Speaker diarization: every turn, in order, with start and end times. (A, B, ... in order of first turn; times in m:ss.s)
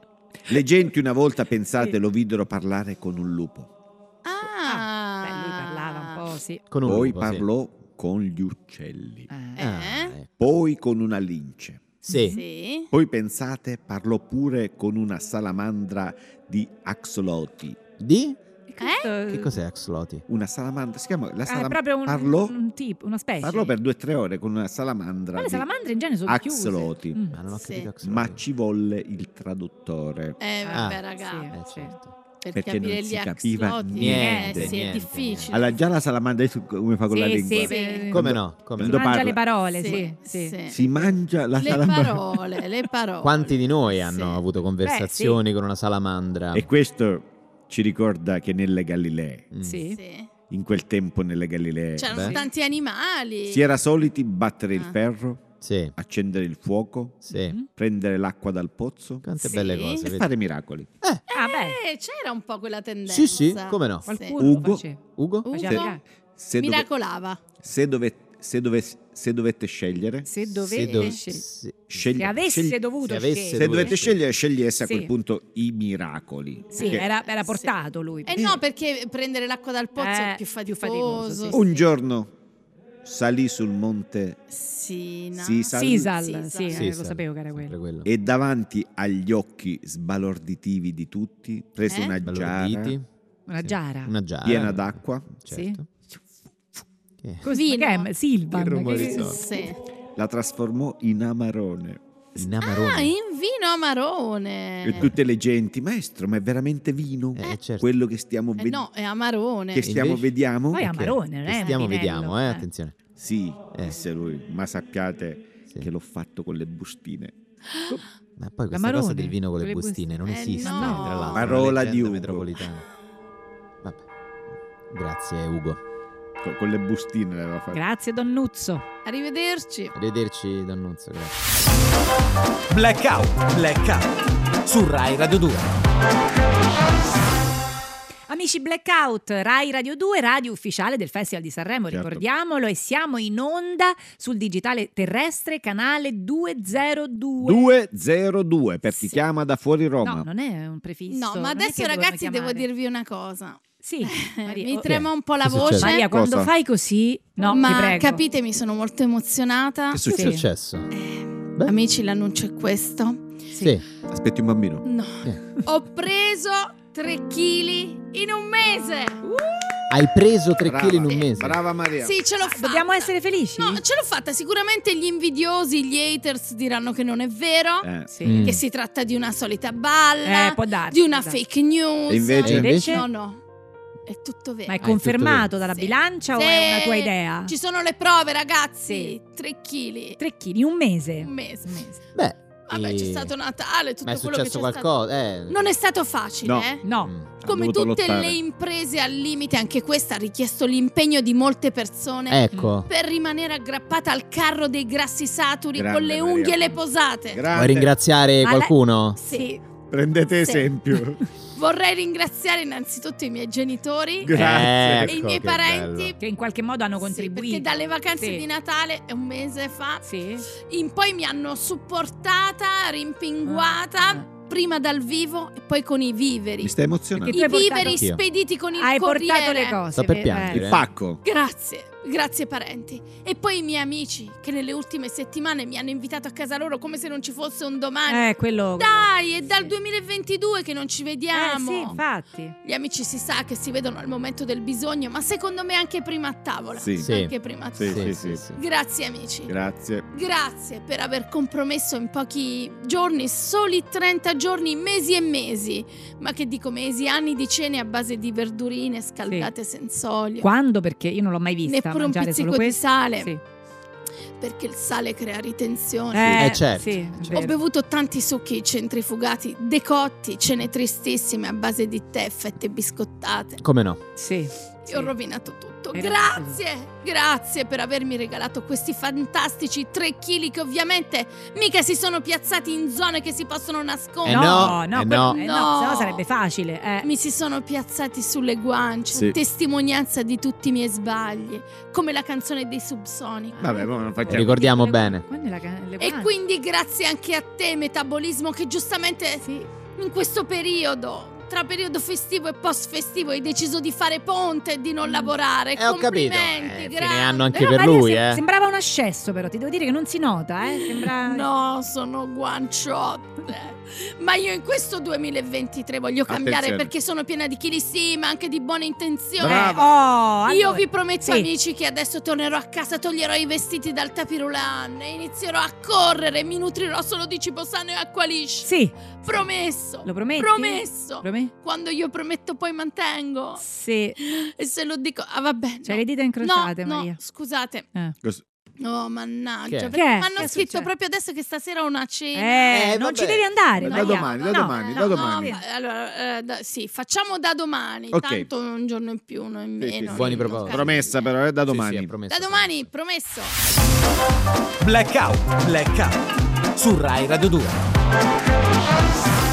0:00.5-0:03.7 A
0:04.2-0:06.2 B
0:04.6-0:06.6 C
0:06.7-0:07.5 D
0:06.8-0:09.3 A
0:09.3-0:09.6 C
0:09.6-0:10.2 B
0:09.6-0:10.3 D
0:10.3-0:12.0 A
0:12.0-0:12.4 D
0:12.1-0:12.4 C
0:12.3-0:12.9 B
0:12.9-0:17.8 A
0:18.0-0:18.4 D
0:18.7-0:19.6 C
0:18.8-0:19.1 B
0:19.3-0:20.2 D
0:20.3-0:22.6 A
0:21.5-0:23.7 C
0:23.4-0:25.7 A
0:25.4-0:27.4 C
0:26.3-0:27.2 A
0:27.3-0:28.4 D
0:27.6-0:27.9 B
0:28.0-0:30.4 A
0:30.4-0:31.5 B
0:30.6-0:32.0 C
0:30.7-0:32.2 D
0:32.4-0:35.8 B
0:32.5-0:34.8 A
0:33.9-0:35.6 D
0:34.0-0:34.6 C
0:35.5-0:40.0 A
0:37.1-0:38.2 C
0:37.6-0:38.2 B
0:38.1-0:39.3 D
0:38.8-0:40.6 C
0:39.8-0:44.4 B
0:40.7-0:42.4 A
0:43.2-0:46.7 D
0:44.8-0:45.4 C
0:46.5-0:49.5 A
0:49.5-0:49.8 D
0:49.6-0:50.0 C
0:49.9-0:50.3 B
0:50.5-0:52.3 A
0:52.0-0:53.6 B
0:52.1-0:52.4 D
0:53.5-0:59.3 A
0:55.6-0:56.0 D
0:57.2-0:57.6 D
0:57.3-0:57.7 C
0:59.2-1:00.3 D
0:59.4-1:00.1 B
1:00.0-1:00.9 A
1:01.3-1:01.8 C
1:01.3-1:04.4 B
1:03.1-1:04.1 D
1:04.1-1:06.0 C
1:04.4-1:04.8 A
1:05.2-1:05.7 D
1:05.4-1:06.0 B
1:05.7-1:06.9 A
1:06.6-1:07.4 B
1:07.6-1:10.3 A
1:10.2-1:11.4 C
1:10.6-1:12.1 D
1:10.8-1:11.2 B
1:11.9-1:12.8 A
1:12.2-1:14.0 C
1:13.0-1:14.2 D
1:13.5-1:17.1 A
1:14.8-1:15.1 C
1:16.7-1:18.4 C
1:16.8-1:17.7 B
1:18.3-1:21.8 B
1:18.3-1:18.6 A
1:20.0-1:21.7 C
1:21.5-1:22.3 A
1:23.0-1:24.4 A
1:24.5-1:26.9 B
1:25.4-1:26.1 A
1:25.7-1:27.8 C
1:26.7-1:28.1 D
1:28.0-1:33.0 A
1:31.9-1:32.2 B
1:32.2-1:33.0 D
1:33.5-1:34.1 C
1:33.6-1:35.9 D
1:34.4-1:35.3 A
1:35.5-1:35.8 C
1:37.4-1:39.6 C
1:37.5-1:38.1 B
1:38.5-1:39.4 D
1:38.8-1:39.8 B
1:40.2-1:42.0 A
1:42.4-1:43.1 D
1:42.4-1:45.1 B
1:44.8-1:48.8 A
1:47.4-1:47.9 D
1:48.6-1:49.9 B
1:49.7-1:50.8 A
1:49.8-1:53.0 D
1:50.7-1:52.6 C
1:53.2-1:57.4 A
1:57.7-1:58.0 B
1:58.4-2:02.8 D
1:58.7-2:01.3 C
2:00.2-2:01.5 B
2:01.4-2:02.5 A
2:04.9-2:05.8 D
2:06.4-2:07.8 A
2:07.7-2:08.8 C
2:09.0-2:09.9 B
2:10.0-2:11.3 D
2:12.7-2:14.1 E
2:14.6-2:15.7 E
2:18.3-2:27.7 C
2:21.9-2:22.2 A
2:27.4-2:30.3 A
2:30.0-2:32.7 C
2:31.1-2:36.1 B
2:33.8-2:35.0 C
2:34.8-2:35.9 D
2:35.7-2:38.2 C
2:36.0-2:36.5 A
2:37.4-2:40.1 B
2:39.9-2:40.4 A
2:40.1-2:40.9 D
2:40.1-2:40.4 C
2:40.9-2:43.4 B
2:43.5-2:43.8 C
2:43.6-2:43.8 D
2:44.1-2:44.9 A
2:44.8-2:49.3 B
2:49.2-2:49.7 C
2:49.9-2:51.6 D
2:50.6-2:52.2 A
2:51.1-2:51.3 B
2:52.0-3:03.4 B
2:52.4-2:53.8 C
2:57.8-2:58.1 A
2:58.1-2:58.5 C
2:58.2-2:58.6 D
3:00.2-3:01.4 C
3:02.1-3:02.7 A
3:02.4-3:03.0 D
3:02.5-3:03.0 C
3:04.1-3:04.8 B
3:04.7-3:07.5 C
3:04.8-3:05.5 D
3:05.7-3:10.2 B
3:08.9-3:09.2 C
3:10.2-3:11.9 C
3:11.2-3:11.9 B
3:12.2-3:13.3 D
3:12.7-3:14.9 B
3:14.0-3:15.6 D
3:15.5-3:16.8 B
3:16.4-3:16.7 A
3:16.8-3:17.1 C
3:17.0-3:17.3 D
3:17.4-3:18.4 A
3:17.4-3:27.4 B
3:22.3-3:22.9 D
3:25.8-3:26.7 A
3:27.3-3:27.9 A
3:27.5-3:29.2 D
3:28.4-3:29.6 C
3:29.2-3:29.6 B
3:29.9-3:31.2 A
3:30.4-3:30.7 B
3:31.5-3:36.2 B
3:34.2-3:35.1 A
3:34.3-3:36.2 D
3:36.2-3:37.7 C
3:37.0-3:49.8 B
3:38.2-3:38.4 C
3:40.0-3:40.5 C
3:43.5-3:44.3 C
3:46.6-3:47.5 A
3:47.2-3:48.1 C
3:47.9-3:48.2 D
3:48.8-3:50.7 C
3:49.9-3:50.9 D
3:50.5-3:51.2 A
3:51.2-4:02.0 B
3:58.1-3:59.7 C
4:01.3-4:02.6 C
4:02.6-4:09.5 B
4:06.8-4:07.1 A
4:07.0-4:08.6 D
4:07.8-4:08.4 A
4:09.5-4:10.1 A
4:10.1-4:20.5 B
4:20.4-4:23.4 C
4:21.7-4:23.3 B
4:24.4-4:33.6 B
4:26.1-4:27.6 C
4:26.3-4:27.0 D
4:33.6-4:34.0 D
4:34.2-4:35.1 C
4:34.9-4:46.2 B
4:35.9-4:36.6 C
4:44.2-4:45.4 D
4:44.3-4:47.1 C
4:47.0-4:53.9 B
4:53.6-4:56.3 C
4:53.6-4:54.6 A
4:54.3-4:55.2 D
4:56.0-4:59.4 B
4:59.4-4:59.7 C
5:00.0-5:08.0 B
5:05.0-5:05.3 C
5:05.8-5:08.4 D
5:07.6-5:11.5 C
5:10.6-5:19.9 B
5:16.3-5:16.9 A
5:19.4-5:19.9 A
5:19.4-5:21.5 C
5:20.5-5:33.6 B
5:28.6-5:29.0 C
5:30.0-5:31.5 C
5:33.6-5:34.2 C
5:34.2-5:37.9 B
5:35.8-5:37.2 C
5:38.8-5:42.9 B
5:39.7-5:40.0 D
5:39.9-5:40.9 C
5:42.4-5:45.6 C
5:42.7-5:43.5 D
5:43.8-5:45.5 A
5:43.8-5:51.3 B
5:48.1-5:48.5 A
5:49.8-5:52.1 A
5:50.1-5:51.0 D
5:51.7-5:52.9 D
5:52.3-5:53.6 B
5:54.8-5:56.2 E
5:56.8-5:57.8 E